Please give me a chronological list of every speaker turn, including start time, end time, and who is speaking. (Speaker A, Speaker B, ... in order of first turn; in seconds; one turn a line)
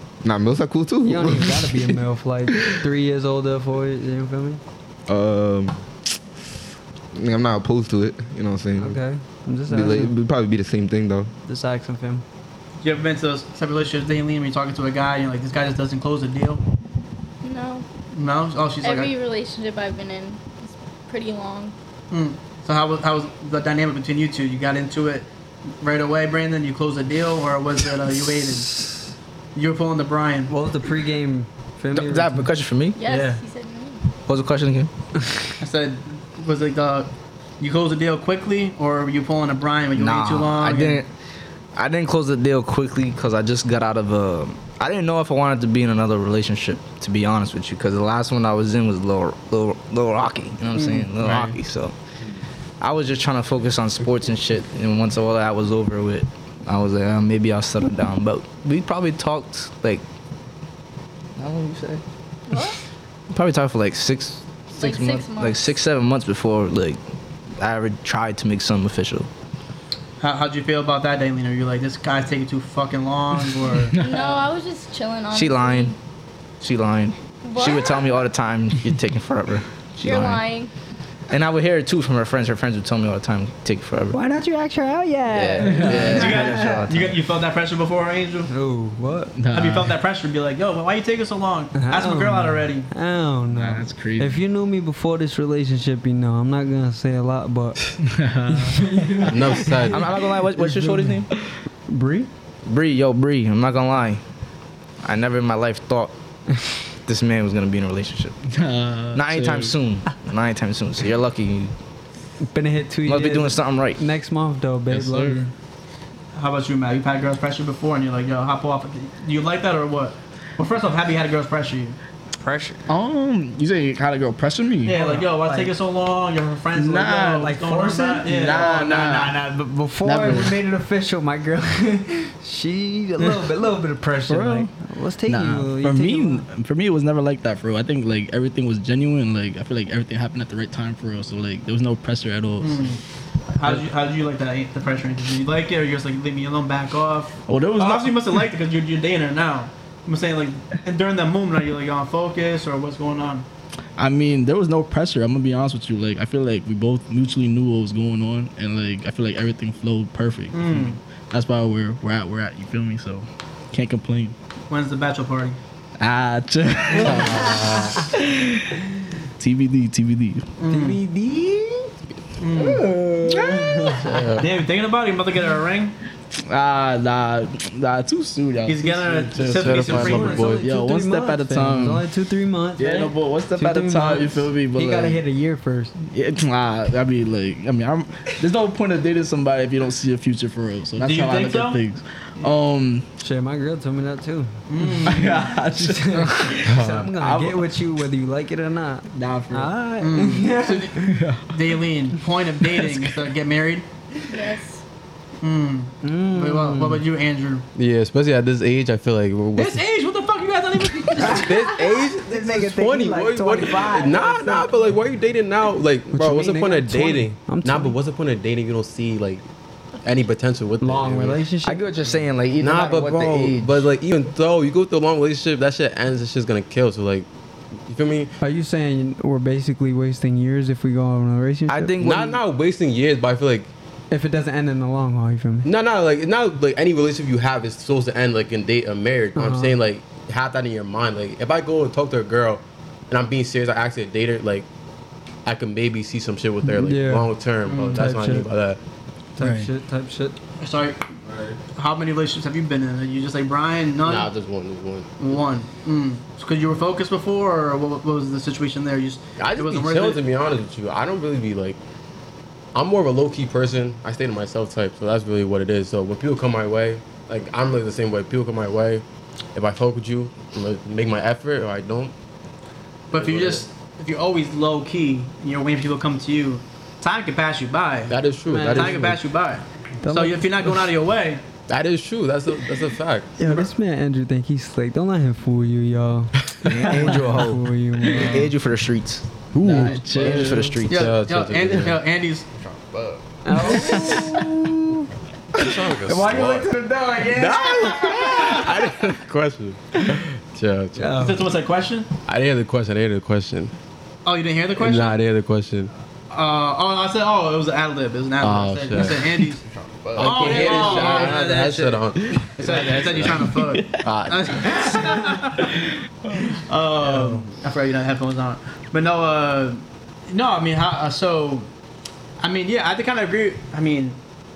Speaker A: 0.2-1.9
Speaker B: 1.0-4.6
Speaker A: 5.1-5.8
Speaker A: 7.1-9.0
Speaker B: 8.8-10.1
Speaker A: 9.7-11.3
Speaker B: 11.5-12.2
Speaker C: 12.8-16.6
Speaker D: 17.4-17.9
Speaker C: 18.1-19.1
Speaker D: 18.8-21.7
Speaker C: 22.1-25.3
Speaker C: 25.8-28.9
Speaker C: 29.6-30.5
Speaker B: 30.5-32.5
Speaker E: 31.9-33.0
Speaker D: 33.0-34.0
Speaker B: 33.1-33.4
Speaker E: 34.3-34.9
Speaker C: 35.6-37.1
Speaker C: 37.6-41.0
Speaker E: 40.0-41.1
Speaker E: 41.8-51.9
Speaker F: 51.2-51.6
Speaker E: 52.8-60.0
Speaker E: 61.4-62.0
Speaker D: 62.5-62.8
Speaker E: 63.3-67.0
Speaker D: 64.7-65.7
Speaker E: 67.6-69.3
Speaker C: 70.2-74.0
Speaker F: 73.9-74.4
Speaker D: 74.0-76.0
Speaker E: 75.3-75.9
Speaker E: 76.6-80.4
Speaker D: 77.5-78.1
Speaker D: 80.0-80.7
Speaker E: 81.3-84.2
Speaker B: 84.1-86.8
Speaker E: 85.3-87.2
Speaker F: 85.6-86.2
Speaker C: 85.8-88.5
Speaker B: 88.5-89.3
Speaker F: 89.4-89.9
Speaker C: 89.5-92.9
Speaker B: 91.8-101.2
Speaker F: 93.5-94.4
Speaker F: 98.0-99.3
Speaker G: 99.3-100.1
Speaker E: 99.9-101.3
Speaker B: 101.9-102.3
Speaker E: 102.7-104.2
Speaker E: 105.0-106.1
Speaker E: 107.1-108.4
Speaker F: 108.5-109.8
Speaker E: 109.1-111.7
Speaker B: 112.5-115.4
Speaker E: 113.1-114.0
Speaker F: 114.9-115.5
Speaker C: 116.3-122.0
Speaker B: 122.4-122.8
Speaker F: 122.9-125.0
Speaker C: 124.8-129.1
Speaker B: 124.9-125.7
Speaker F: 126.8-127.5
Speaker B: 127.4-136.4
Speaker F: 128.3-129.4
Speaker F: 130.0-130.6
Speaker F: 134.3-134.7
Speaker F: 135.3-142.9
Speaker C: 142.6-143.0
Speaker C: 143.5-153.5
Speaker F: 147.5-148.3
Speaker F: 154.0-164.3
Speaker C: 160.5-161.0
Speaker C: 164.7-165.6
Speaker F: 166.0-168.6
Speaker G: 167.0-168.1
Speaker F: 169.4-170.4
Speaker C: 170.6-171.0
Speaker B: 170.7-171.9
Speaker C: 172.4-172.8
Speaker B: 172.5-174.2
Speaker F: 173.3-174.1
Speaker G: 174.0-174.5
Speaker C: 174.4-176.0
Speaker F: 176.4-182.0
Speaker C: 178.7-180.6
Speaker G: 179.6-180.7
Speaker B: 179.8-185.9
Speaker F: 182.8-185.2
Speaker F: 186.1-193.1
Speaker C: 191.0-191.8
Speaker B: 193.2-201.2
Speaker C: 194.7-195.4
Speaker F: 195.1-197.6
Speaker G: 196.7-197.1
Speaker F: 199.1-199.7
Speaker C: 200.0-203.8
Speaker F: 201.1-201.5
Speaker F: 202.7-203.0
Speaker D: 204.3-204.8
Speaker C: 205.4-207.7
Speaker B: 206.0-207.0
Speaker G: 207.8-209.8
Speaker C: 209.6-211.5
Speaker B: 211.2-214.7
Speaker G: 211.2-219.4
Speaker B: 216.1-218.0
Speaker G: 220.0-221.4
Speaker B: 220.8-221.8
Speaker E: 221.6-223.9
Speaker G: 222.6-227.3
Speaker G: 227.9-228.3
Speaker B: 228.4-231.9
Speaker E: 231.7-232.4
Speaker G: 232.0-233.7
Speaker B: 234.1-235.7
Speaker G: 235.7-244.7
Speaker B: 239.4-239.8
Speaker G: 245.4-248.8
Speaker B: 246.6-248.5
Speaker B: 249.4-250.4
Speaker F: 249.4-249.7
Speaker C: 250.6-251.0
Speaker C: 251.8-254.3
Speaker G: 254.0-255.1
Speaker C: 255.2-260.2
Speaker G: 259.4-261.8
Speaker G: 262.8-269.0
Speaker G: 269.6-272.1
Speaker C: 273.1-281.4
Speaker G: 273.1-273.6
Speaker G: 278.1-279.2
Speaker B: 278.5-279.0
Speaker B: 280.0-280.5
Speaker G: 281.7-283.3
Speaker B: 283.4-288.5
Speaker E: 286.6-289.3
Speaker F: 289.6-290.8
Speaker G: 289.6-292.0
Speaker E: 290.1-291.2
Speaker C: 290.9-292.6
Speaker B: 293.4-295.0
Speaker G: 293.9-294.2
Speaker G: 295.6-301.3
Speaker B: 296.0-298.7
Speaker B: 301.0-301.4
Speaker C: 301.2-302.1
Speaker G: 302.3-303.7
Speaker C: 304.2-305.2
Speaker G: 304.8-305.9
Speaker C: 306.3-309.6
Speaker G: 308.4-309.4
Speaker G: 310.1-315.0
Speaker C: 310.2-312.1
Speaker F: 310.6-311.1
Speaker C: 312.6-315.7
Speaker C: 316.5-321.7
Speaker B: 317.1-317.4
Speaker C: 322.4-324.2